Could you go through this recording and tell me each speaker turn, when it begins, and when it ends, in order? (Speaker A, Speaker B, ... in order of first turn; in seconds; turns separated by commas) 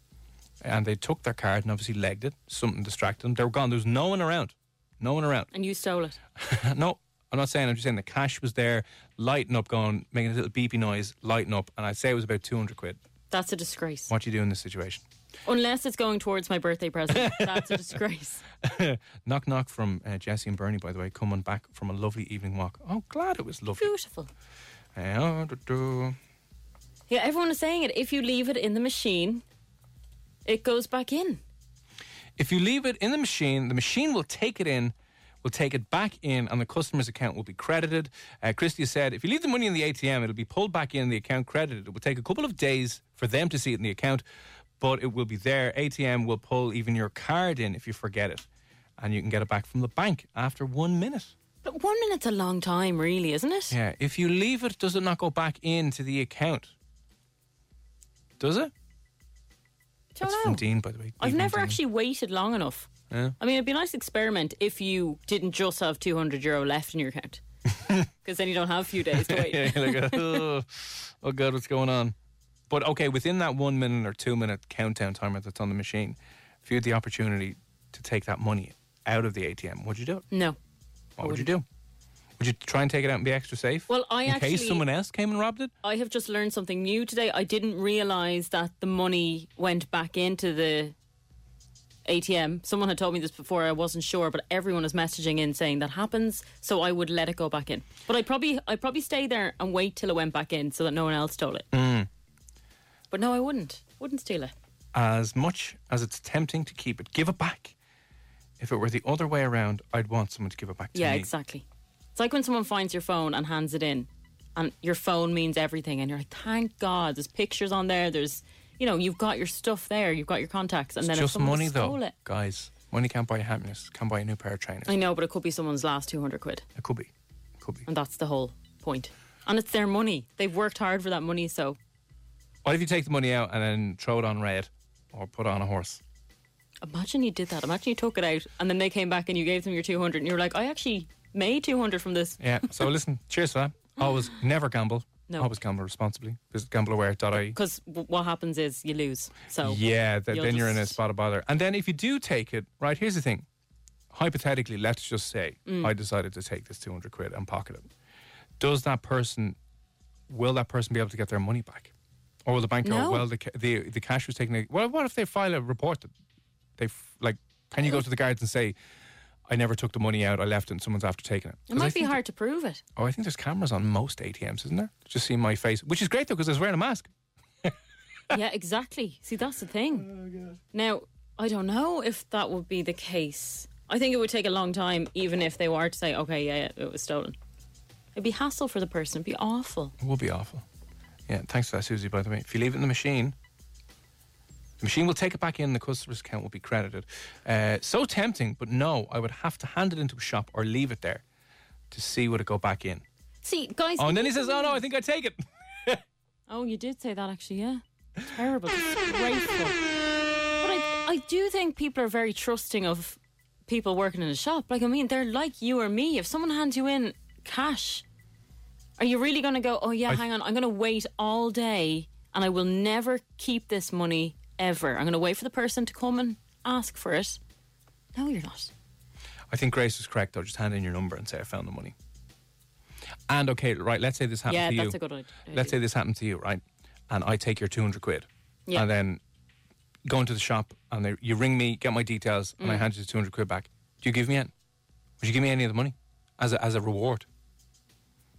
Speaker A: 0.6-5.5, Speaker B: 5.5-6.2, Speaker A: 6.4-13.0, Speaker B: 13.3-14.1, Speaker A: 14.1-15.0, Speaker B: 15.4-18.4, Speaker A: 17.1-17.9, Speaker A: 18.6-23.9, Speaker B: 23.8-24.3, Speaker A: 24.9-26.2, Speaker B: 27.1-29.4, Speaker B: 30.4-31.4, Speaker A: 32.4-34.9, Speaker A: 35.4-44.2, Speaker A: 44.8-48.5, Speaker A: 49.0-51.3, Speaker B: 51.6-53.8, Speaker A: 53.7-56.7, Speaker A: 58.4-58.7, Speaker B: 60.1-60.6, Speaker A: 60.2-61.8, Speaker B: 61.2-62.9, Speaker A: 63.1-63.4, Speaker B: 63.4-67.4, Speaker B: 68.2-70.4, Speaker A: 69.1-72.1, Speaker A: 72.7-80.2, Speaker B: 80.3-80.6, Speaker A: 81.2-81.6, Speaker B: 81.2-81.5, Speaker A: 82.4-85.7, Speaker B: 83.9-84.8, Speaker B: 85.8-90.9, Speaker B: 92.0-101.7, Speaker A: 101.7-102.1, Speaker B: 103.1-104.5, Speaker A: 104.9-107.7, Speaker A: 108.6-111.3, Speaker B: 110.9-122.1, Speaker A: 121.0-124.9, Speaker B: 124.9-126.6, Speaker A: 126.8-127.1, Speaker B: 127.9-131.8, Speaker A: 132.6-136.0, Speaker B: 136.8-142.4, Speaker A: 142.4-147.6, Speaker B: 147.3-151.0, Speaker A: 149.6-153.4, Speaker A: 154.1-157.8, Speaker A: 158.6-159.6, Speaker A: 160.3-161.9, Speaker A: 162.4-166.1, Speaker B: 162.8-163.2, Speaker A: 166.8-168.8, Speaker A: 169.5-172.2, Speaker B: 171.7-172.8, Speaker A: 172.9-177.1, Speaker B: 178.3-180.1, Speaker A: 180.1-180.6, Speaker B: 180.7-187.3, Speaker B: 188.2-189.9, Speaker A: 190.0-190.6, Speaker A: 191.3-193.3, Speaker A: 194.8-201.2, Speaker A: 201.9-203.0, Speaker B: 203.4-204.8, Speaker A: 204.0-206.0, Speaker B: 206.5-209.8, Speaker B: 210.6-218.0, Speaker B: 219.0-227.4, Speaker B: 228.1-228.7, Speaker A: 229.5-231.9, Speaker A: 233.3-235.0, Speaker B: 234.5-235.8, Speaker A: 235.5-239.2, Speaker A: 240.1-244.5, Speaker B: 242.6-242.8, Speaker A: 245.2-247.2